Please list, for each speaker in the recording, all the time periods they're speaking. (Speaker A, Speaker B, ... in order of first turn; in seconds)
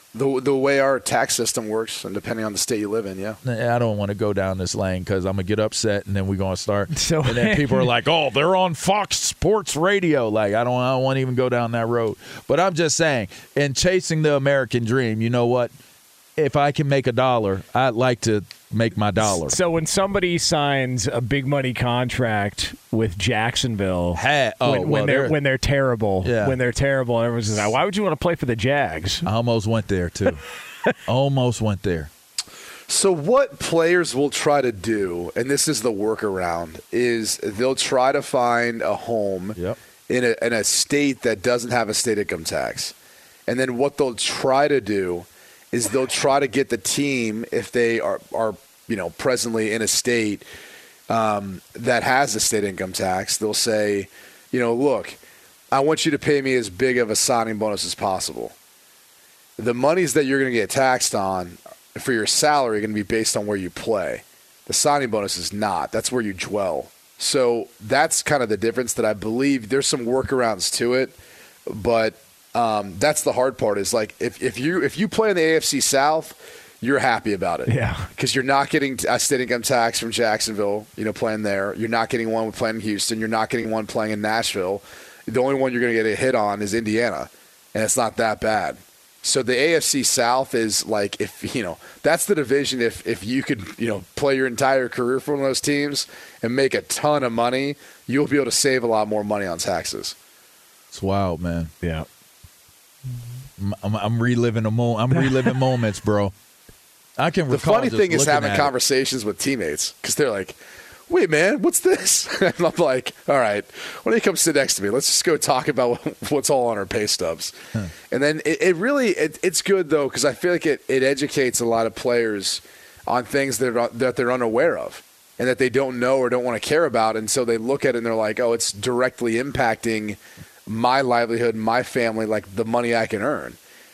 Speaker A: 0.1-3.4, 32.9-39.6, 40.1-42.9, 43.5-50.4, 51.1-55.2, 55.7-58.5, 59.6-100.1, 107.5-110.6, 111.1-117.5, 118.1-133.6
Speaker B: 3.4-15.7, 16.4-19.5, 24.1-25.4, 26.2-26.6, 29.2-30.4, 31.1-32.1, 100.9-101.7, 103.6-106.3, 107.2-108.7
Speaker C: 6.9-7.9, 19.4-29.2, 77.7-78.1, 101.8-102.1